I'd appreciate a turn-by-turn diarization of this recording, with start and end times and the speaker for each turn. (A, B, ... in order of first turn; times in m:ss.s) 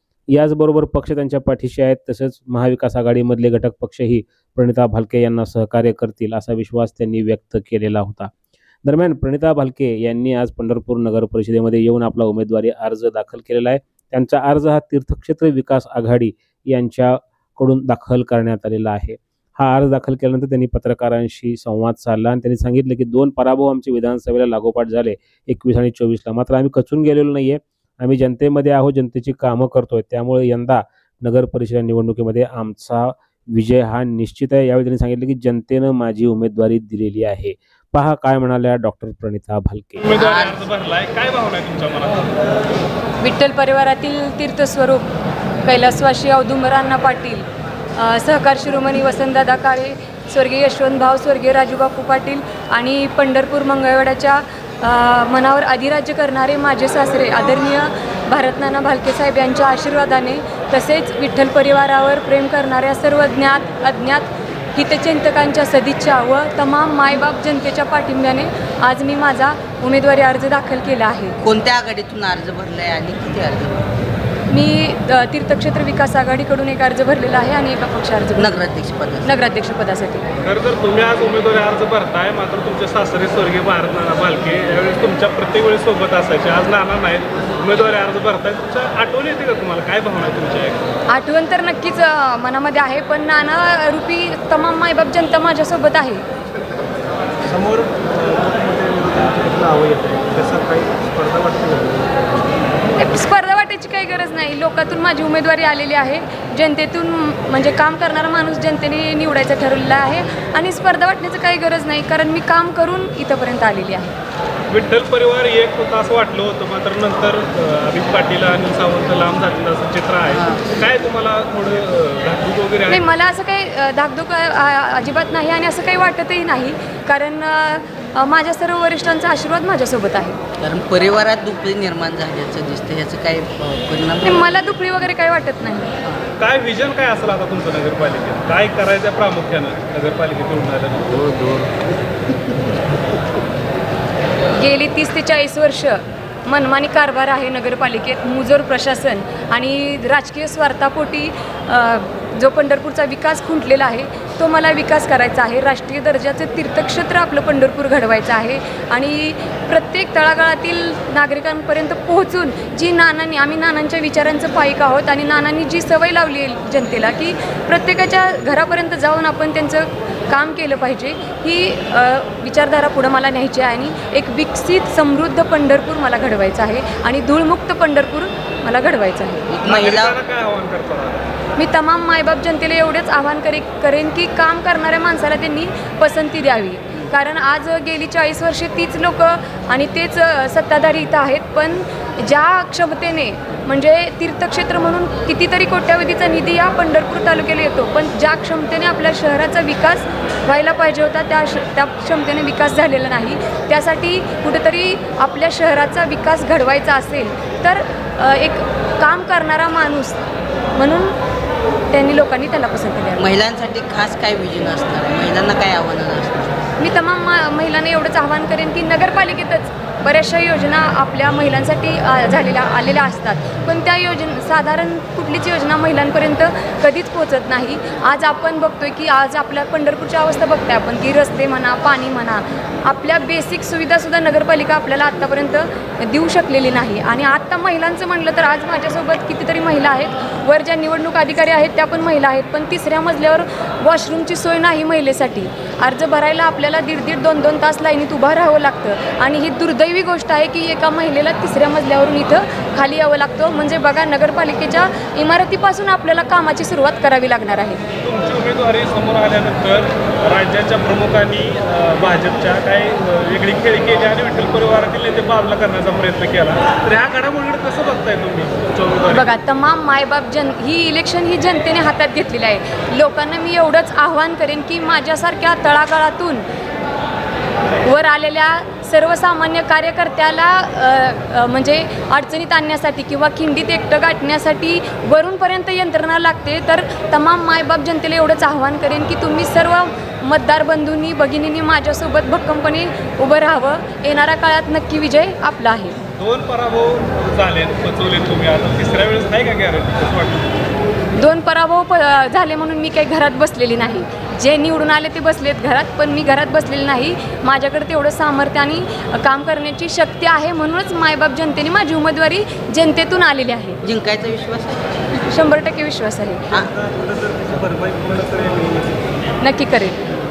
0:00.3-0:08.3 A
0:08.8-0:40.0 A
0:40.0-0:42.4 B
0:40.1-0:40.6 C
0:43.2-0:45.1 D
0:45.6-1:11.4 D
1:11.4-1:13.9 C
1:14.5-1:18.5 D
1:18.4-1:19.4 C
1:19.2-1:20.3 D
1:20.4-1:30.9 B
1:31.1-1:36.2 D
1:37.5-1:42.1 B
1:39.3-1:40.1 D
1:43.0-1:54.2 D
1:54.7-2:03.0 B
2:00.2-2:00.7 C
2:02.8-2:10.4 D
2:10.6-2:14.6 C
2:14.2-2:16.0 D
2:16.4-2:21.3 B
2:21.4-2:21.7 C
2:24.6-2:59.7 D
2:59.5-3:00.2 C
2:59.6-3:01.3 B
3:01.6-3:30.2 D
3:30.8-3:31.2 D
3:31.9-3:33.3 D
3:33.2-3:36.7 C
3:36.8-4:17.9 D
4:18.0-4:29.3 B
4:29.0-4:36.4 D
4:37.8-4:56.0 D
4:56.2-5:00.5 B
5:01.2-5:13.8 D
5:13.8-5:15.2 C
5:15.2-5:16.6 D
5:16.7-5:19.1 B
5:19.4-5:20.0 D